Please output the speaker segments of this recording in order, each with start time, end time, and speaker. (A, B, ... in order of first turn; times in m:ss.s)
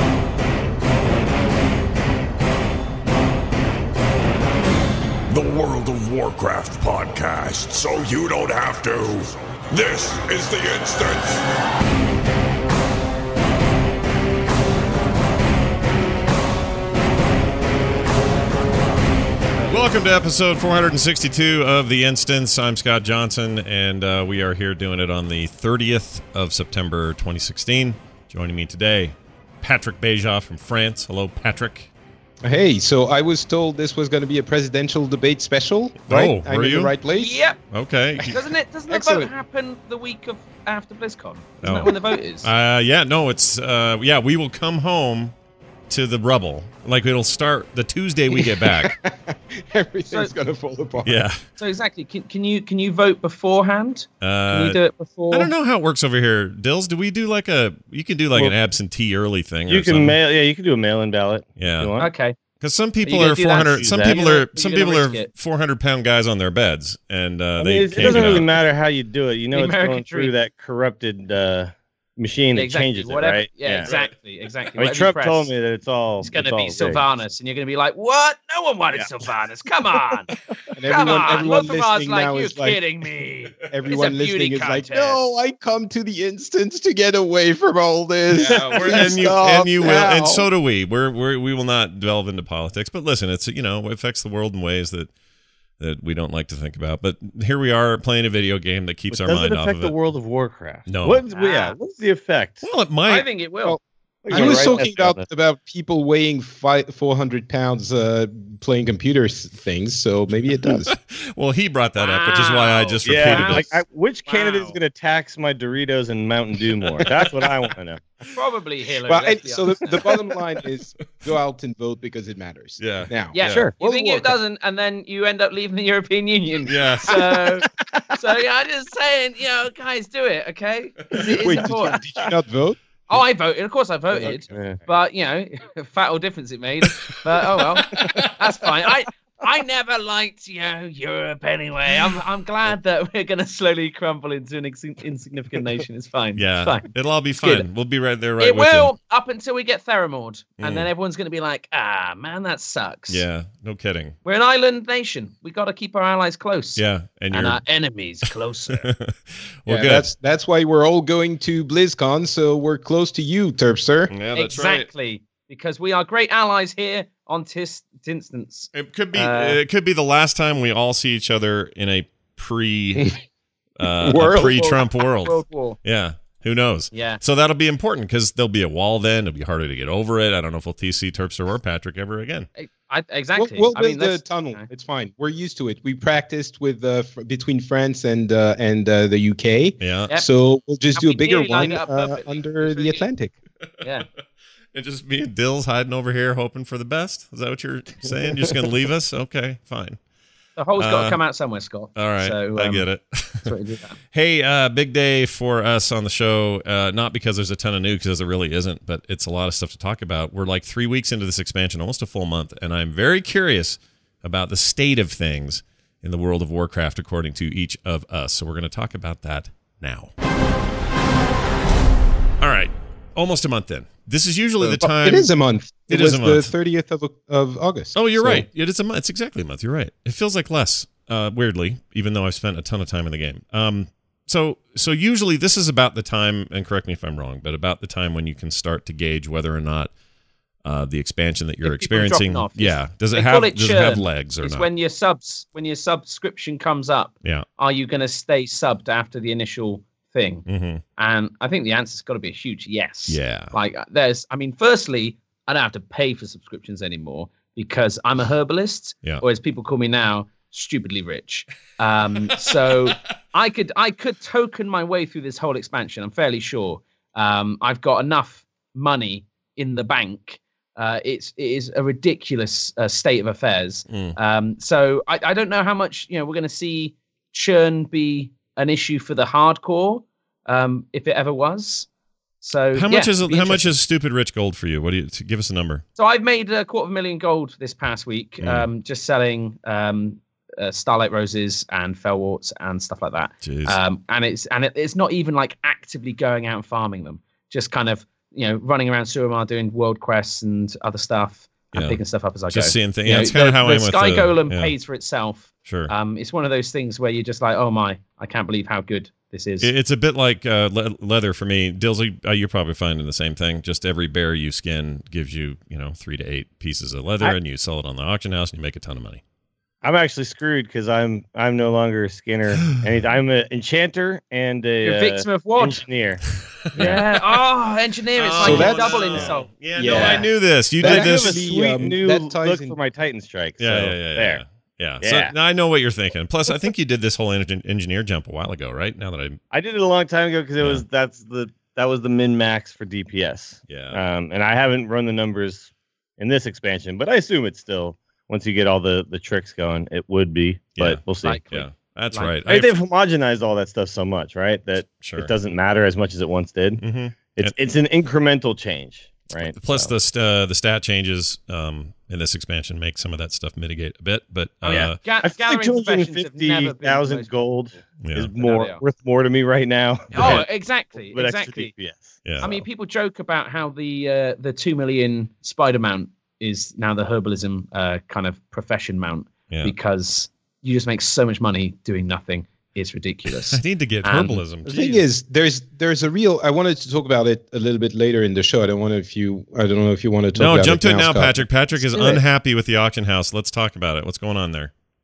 0:05.3-0:11.4 A
0:19.7-0:31.9 B
0:32.4-0:37.4 C
0:36.1-0:36.9 B
0:37.1-0:37.6 D
0:37.7-0:38.4 B
0:38.2-0:42.5 D
0:38.9-0:39.3 C
0:41.6-0:41.9 B
0:42.4-0:45.3 B
0:45.9-0:49.0 B
0:48.3-0:51.3 C
0:51.0-0:51.4 B
0:51.6-0:55.5 D
0:54.2-0:54.8 B
0:55.3-1:00.2 B
0:59.7-1:02.1 E
1:01.6-1:01.9 B
1:02.0-1:02.4 D
1:02.6-1:08.5 B
1:03.0-1:05.3 D
1:03.6-1:04.2 E
1:07.6-1:13.9 E
1:08.0-1:08.4 D
1:09.5-1:10.3 D
1:12.5-1:15.5 D
1:13.8-1:14.1 B
1:14.8-1:17.0 E
1:16.2-1:20.3 D
1:20.7-1:22.8 C
1:20.9-1:25.3 D
1:23.7-1:30.5 C
1:28.3-1:35.1 B
1:28.4-1:29.7 E
1:35.8-1:39.9 B
1:39.1-1:42.6 E
1:40.9-1:41.2 B
1:41.3-1:41.8 D
1:42.6-1:43.3 B
1:43.1-1:43.8 D
1:43.6-1:51.0 C
1:44.2-1:45.2 E
1:44.3-1:44.8 D
1:50.7-1:53.8 B
1:52.0-1:54.8 D
1:53.0-1:58.0 E
1:58.3-1:59.9 D
1:59.0-2:04.3 C
2:02.8-2:03.7 B
2:03.3-2:12.0 D
2:03.5-2:03.8 E
2:06.7-2:07.6 B
2:11.1-2:13.0 C
2:13.1-2:26.9 D
2:14.1-2:14.4 C
2:14.5-2:14.8 E
2:18.0-2:18.3 B
2:26.4-2:28.9 B
2:27.4-2:27.7 D
2:28.4-2:33.2 D
2:30.6-2:30.9 B
2:33.1-2:34.2 B
2:34.2-2:38.9 D
2:36.8-2:37.6 B
2:38.9-2:40.1 B
2:39.7-2:44.1 C
2:44.1-2:44.9 B
2:44.4-2:49.6 D
2:48.7-2:53.1 B
2:53.8-3:02.5 B
2:54.0-2:54.6 C
2:54.2-2:55.8 D
2:56.9-2:57.2 D
3:02.6-3:04.6 D
3:03.4-3:13.3 C
3:09.8-3:10.1 B
3:11.0-3:13.0 D
3:14.7-3:20.0 B
3:20.6-3:22.9 D
3:20.8-3:21.2 B
3:22.0-3:23.5 B
3:23.4-3:24.0 D
3:24.1-3:40.1 B
3:42.4-3:45.3 B
3:44.6-3:48.5 C
3:45.9-3:46.5 B
3:48.0-3:59.9 B
4:00.6-4:04.7 B
4:01.6-4:10.5 D
4:10.5-4:10.8 B
4:11.0-4:41.9 D
4:13.1-4:13.5 B
4:33.9-4:34.2 B
4:42.4-4:43.7 D
4:42.7-4:45.8 B
4:46.0-5:09.7 D
4:48.4-4:48.7 B
4:53.4-4:53.8 B
5:01.7-5:02.0 B
5:02.5-5:04.7 B
5:05.6-5:05.9 B
5:09.6-5:19.2 B
5:19.8-5:26.2 E
5:24.8-5:25.9 D
5:26.7-5:27.0 B
5:26.8-5:30.2 D
5:28.2-5:31.9 B
5:28.4-5:28.9 C
5:28.4-5:29.4 E
5:29.8-5:30.3 C
5:30.8-5:32.8 C
5:30.8-5:34.4 E
5:33.6-5:39.4 B
5:35.0-5:35.3 E
5:39.5-5:51.4 E
5:40.6-5:40.8 B
5:43.7-5:44.0 B
5:50.8-5:52.8 B
5:51.2-5:52.3 D
5:52.5-5:59.9 E
5:55.0-5:55.3 B
5:56.8-5:57.6 B
5:59.5-6:05.0 B
6:04.6-6:07.3 D
6:04.7-6:10.5 E
6:08.0-6:08.3 B
6:08.4-6:08.8 D
6:10.1-6:11.8 D
6:10.2-6:10.4 B
6:11.1-6:12.6 E
6:12.4-6:24.4 D
6:23.5-6:25.0 B
6:24.7-6:32.2 C
6:30.4-6:34.7 B